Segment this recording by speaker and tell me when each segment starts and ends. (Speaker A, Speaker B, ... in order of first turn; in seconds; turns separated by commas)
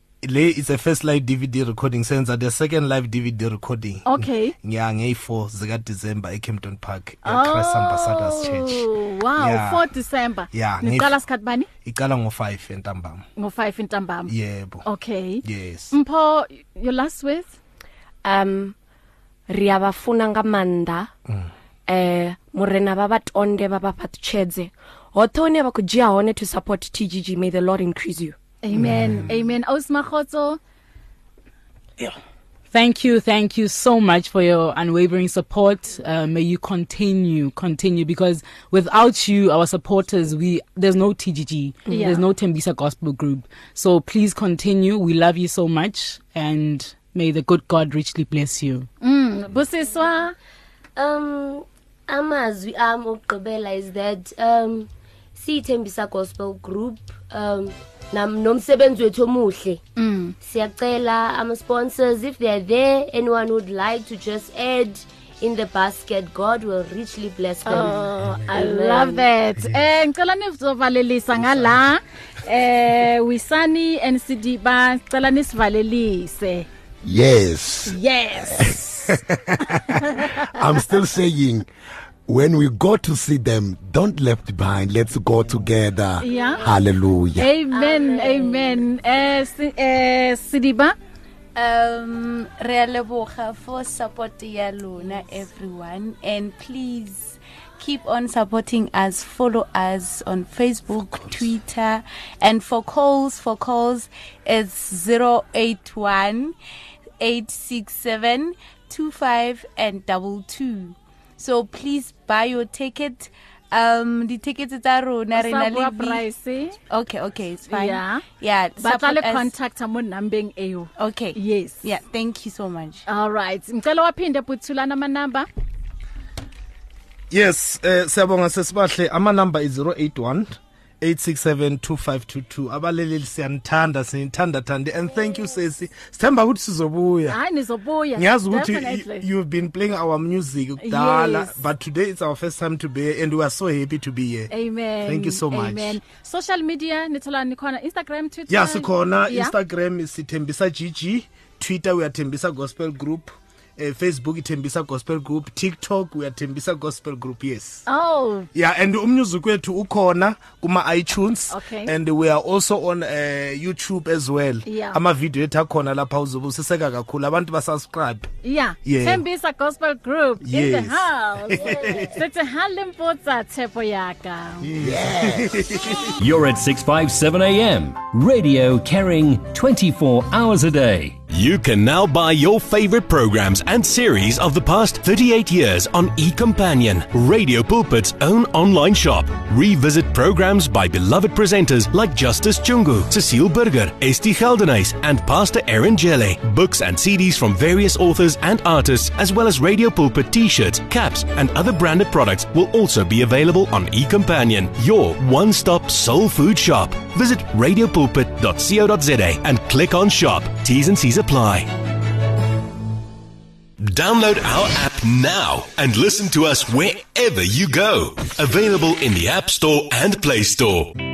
Speaker A: 0.2-9.8, Speaker B: 4.1-4.5, Speaker B: 7.2-11.7, Speaker A: 10.5-11.2, Speaker A: 11.8-13.2, Speaker B: 13.4-14.3, Speaker A: 14.3-14.9, Speaker B: 14.9-17.6, Speaker A: 15.4-16.0, Speaker C: 18.2-18.8, Speaker C: 19.5-21.1, Speaker C: 21.9-28.4, Speaker B: 28.6-30.6, Speaker A: 28.7-29.3, Speaker D: 32.7-48.9, Speaker B: 41.9-42.2, Speaker B: 49.0-50.4, Speaker E: 51.0-59.8, Speaker B: 60.0-60.4, Speaker E: 60.4-69.3, Speaker B: 67.7-76.7, Speaker A: 69.6-69.8, Speaker A: 71.4-71.8, Speaker F: 77.0-81.7, Speaker B: 77.9-78.9, Speaker F: 82.3-87.5, Speaker B: 86.2-86.6, Speaker B: 87.4-91.0, Speaker G: 87.7-88.8, Speaker G: 91.6-106.5, Speaker G: 107.2-116.2, Speaker B: 115.3-116.8, Speaker G: 116.9-119.5, Speaker B: 117.7-118.3, Speaker B: 118.8-121.8, Speaker G: 121.0-123.0, Speaker B: 123.1-125.5, Speaker A: 127.3-137.4, Speaker B: 137.3-139.2, Speaker A: 138.2-144.5, Speaker B: 140.8-141.6, Speaker B: 144.5-149.6, Speaker A: 145.0-146.0, Speaker A: 148.5-157.8, Speaker B: 157.9-158.5, Speaker A: 158.5-168.3, Speaker B: 161.5-161.9, Speaker B: 164.7-165.0, Speaker B: 168.4-174.7, Speaker A: 168.8-169.2, Speaker A: 170.4-172.2, Speaker E: 171.6-172.1, Speaker F: 174.6-176.0, Speaker A: 174.7-176.1, Speaker H: 176.2-181.2, Speaker I: 181.3-211.7, Speaker I: 213.8-221.0